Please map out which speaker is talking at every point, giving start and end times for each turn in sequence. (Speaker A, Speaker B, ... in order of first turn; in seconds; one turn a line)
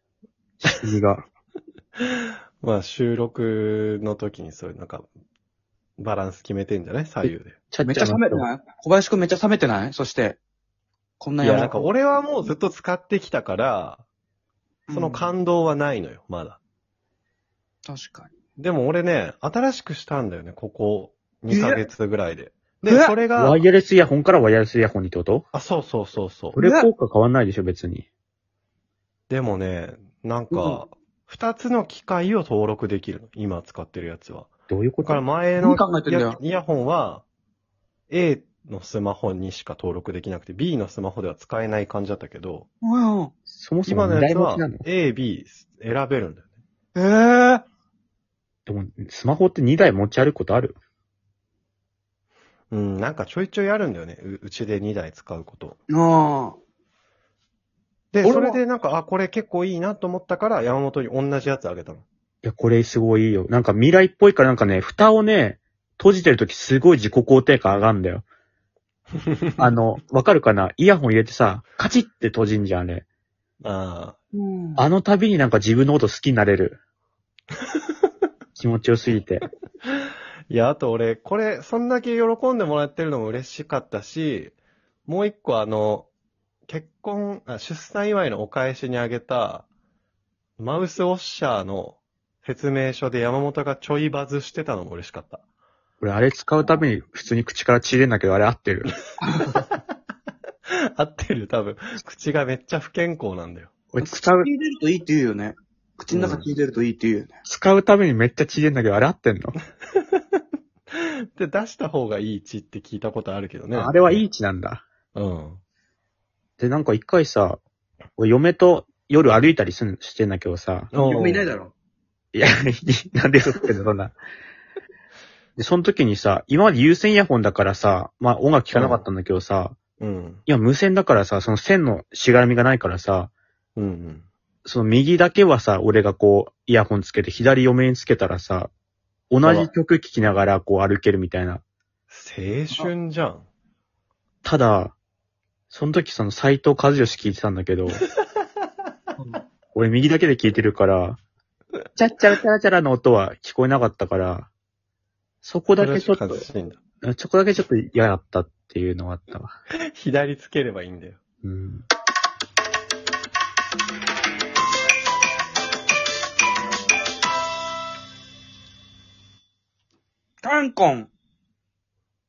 Speaker A: 0.6-1.2
Speaker B: 2.6-5.1
Speaker B: 6.0-7.6
Speaker A: 7.2-8.4
Speaker C: 7.8-10.4
Speaker C: 11.2-11.8
Speaker B: 11.4-14.0
Speaker C: 14.9-15.3
Speaker B: 14.9-16.6
Speaker C: 17.9-18.3
Speaker B: 18.6-23.6
Speaker C: 21.5-21.8
Speaker C: 22.8-23.2
Speaker A: 23.3-25.4
Speaker B: 25.5-26.6
Speaker A: 26.5-28.1
Speaker C: 26.6-26.9
Speaker B: 29.3-34.5
Speaker C: 30.5-30.8
Speaker A: 34.7-35.2
Speaker B: 35.0-37.2
Speaker C: 35.6-36.4
Speaker B: 38.1-42.7
Speaker C: 42.8-43.3
Speaker A: 43.5-44.9
Speaker B: 43.9-46.5
Speaker C: 46.9-47.6
Speaker A: 48.7-50.8
Speaker B: 52.7-55.8
Speaker C: 55.9-56.6
Speaker B: 58.1-62.0
Speaker C: 58.2-58.6
Speaker A: 62.4-68.2
Speaker A: 69.6-73.0
Speaker B: 73.6-74.2
Speaker C: 74.3-74.8
Speaker A: 74.8-76.8
Speaker A: 78.6-79.5
Speaker B: 80.5-84.5
Speaker B: 85.1-86.1
Speaker B: 86.7-89.7
Speaker B: 90.6-95.4
Speaker A: 96.0-98.9
Speaker C: 99.2-99.6
Speaker B: 101.0-103.7
Speaker A: 103.9-104.5
Speaker C: 104.0-107.3
Speaker B: 106.1-106.5
Speaker A: 107.5-109.5
Speaker B: 110.9-114.2
Speaker A: 113.7-114.8
Speaker B: 115.2-115.6
Speaker A: 116.6-117.6
Speaker A: 118.2-120.9
Speaker B: 120.9-121.5
Speaker C: 120.9-121.7
Speaker A: 122.3-124.2
Speaker A: 125.5-129.8
Speaker B: 128.7-129.0
Speaker B: 130.0-130.4
Speaker A: 130.5-133.3
Speaker B: 133.8-134.3
Speaker A: 134.7-138.7
Speaker A: 139.3-141.6
Speaker B: 139.4-139.7
Speaker B: 142.1-143.5
Speaker A: 144.4-144.9
Speaker A: 145.7-148.0
Speaker A: 149.7-151.2
Speaker A: 151.9-154.5
Speaker A: 155.4-156.5
Speaker B: 155.8-156.8
Speaker A: 157.0-159.5
Speaker B: 159.9-161.2
Speaker A: 161.4-161.9
Speaker C: 170.4-171.1